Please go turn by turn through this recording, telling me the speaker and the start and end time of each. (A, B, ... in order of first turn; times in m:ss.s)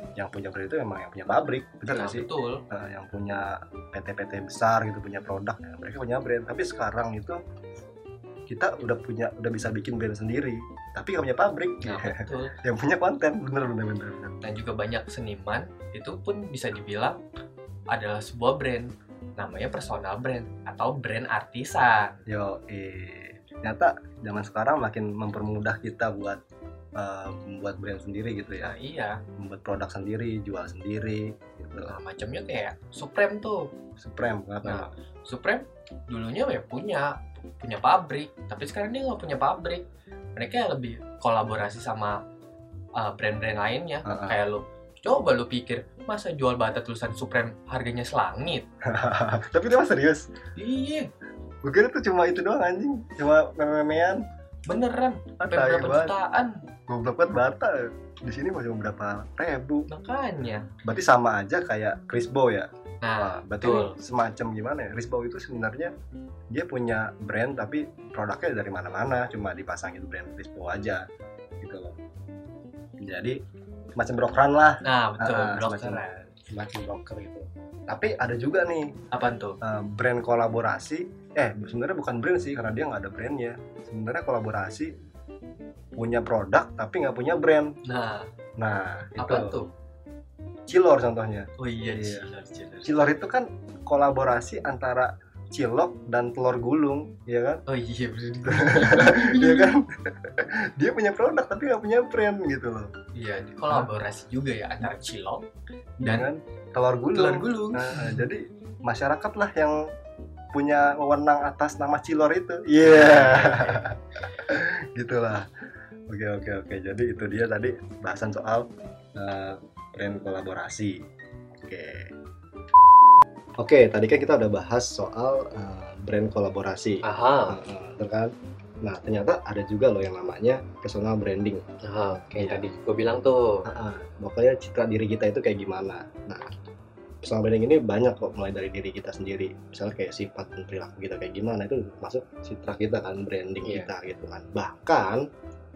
0:00.2-0:07.4 A
0:01.9-0:02.6 B
0:08.5-0:14.4 A
0:11.8-0:12.6 B
0:14.4-0:17.2 B
0:17.9-0:22.2 B
0:22.3-0:26.4 A
0:27.0-0:28.8 A
0:28.6-0:29.2 B
0:29.4-0:32.0 A
0:31.9-0:33.7 B
0:34.0-0:34.9 A
0:34.6-0:39.8 B
0:40.4-0:42.2 B
0:43.0-0:48.7 B
0:44.0-0:44.4 A
0:48.9-0:50.3 A
0:50.6-0:51.1 B
0:51.6-0:54.2 A
0:54.7-0:56.7 B
0:55.4-0:56.2 A
0:56.9-0:59.9 A
0:59.9-1:00.7 B
1:00.8-1:02.7 A
1:03.0-1:04.0 B
1:03.2-1:05.9 A
1:06.5-1:11.0 A
1:11.6-1:12.0 A
1:13.0-1:13.4 A
1:14.0-1:18.9 A
1:14.8-1:16.2 B
1:19.1-1:19.6 B
1:19.6-1:24.9 A
1:26.0-1:27.8 A
1:27.8-1:28.3 B
1:28.6-1:29.6 A
1:29.2-1:29.7 B
1:30.7-1:32.3 A
1:31.6-1:33.0 B
1:32.8-1:37.6 A
1:37.7-1:39.8 B
1:38.5-1:42.9 A
1:43.1-1:45.4 B
1:46.0-1:46.3 B
1:46.0-1:49.8 A
1:47.1-1:48.2 B
1:50.5-1:55.5 A
1:52.8-1:53.9 B
1:56.1-2:01.0 A
2:01.6-2:02.1 A
2:03.6-2:08.3 A
2:07.0-2:07.6 B
2:08.8-2:11.6 A
2:11.8-2:13.6 B
2:13.6-2:16.5 A
2:17.2-2:25.2 A
2:23.6-2:23.9 B